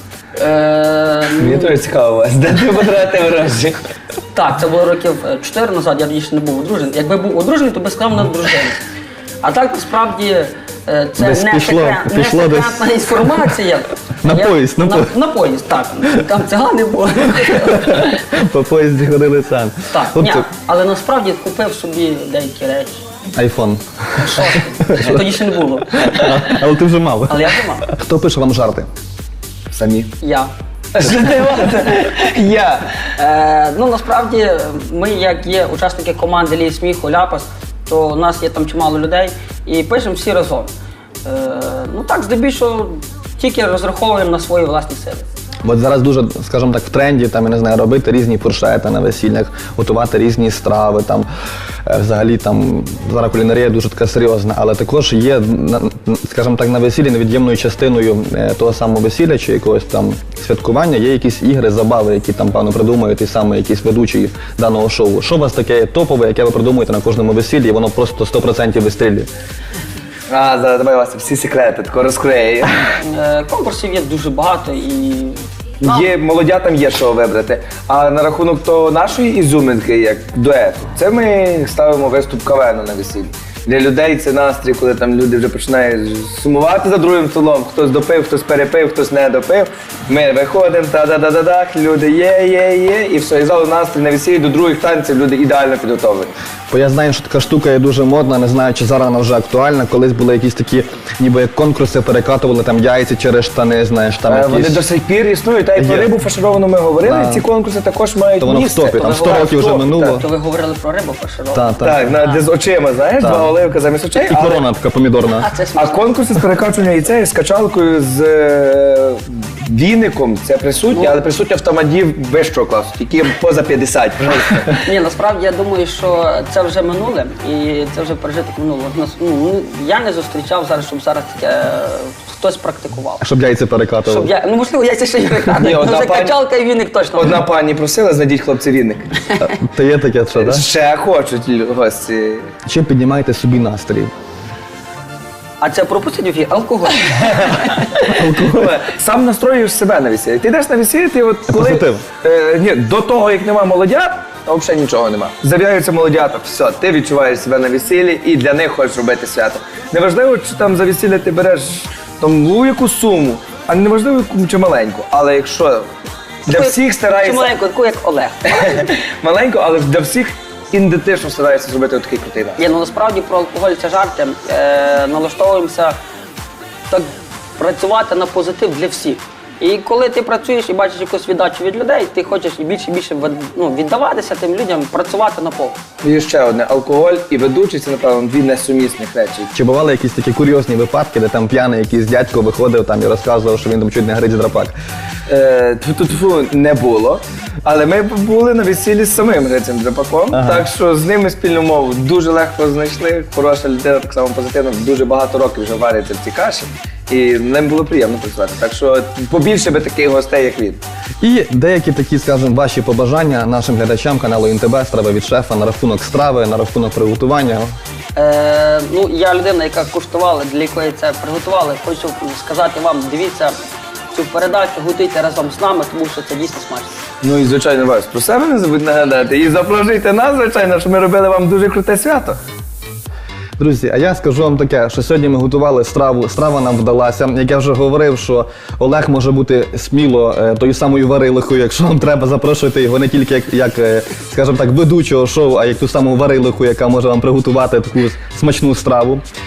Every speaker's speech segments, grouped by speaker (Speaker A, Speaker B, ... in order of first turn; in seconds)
Speaker A: 0.4-1.8, 4.3-8.8, 9.4-18.2, 19.9-23.0, 24.2-26.6, 27.3-27.9, 30.2-30.5, 33.2-40.7, 41.2-45.2, 73.0-76.1, 109.0-112.4, 115.4-116.0, 120.9-121.2, 124.8-133.2, 134.1-137.4, 145.6-147.9, 166.5-168.9, 172.6-176.0, 176.9-185.8, 218.2-223.6, 224.1-226.9
Speaker B: 1.4-3.8, 29.7-30.1, 30.9-33.0, 70.3-72.9, 75.8-96.3, 104.3-109.5, 111.8-114.6, 115.8-124.8, 135.6-136.4, 137.2-139.1, 140.3-142.5, 147.3-147.7, 148.3-165.9, 166.5-167.5, 168.5-172.6, 186.0-189.5, 195.3-210.8, 227.2-232.4
Speaker C: 11.2-13.1, 14.2-15.1, 17.7-20.5, 23.4-25.2, 26.0-28.9, 45.6-51.3, 51.9-69.3, 96.7-104.8, 105.8-106.1, 107.0-107.4, 108.4-110.3, 111.5-112.1, 113.2-113.5, 114.2-115.5, 133.2-134.3, 139.4-140.7, 142.7-144.1, 148.1-148.8, 151.5-152.0, 189.5-194.7, 200.3-200.7, 211.2-217.7, 233.6-249.2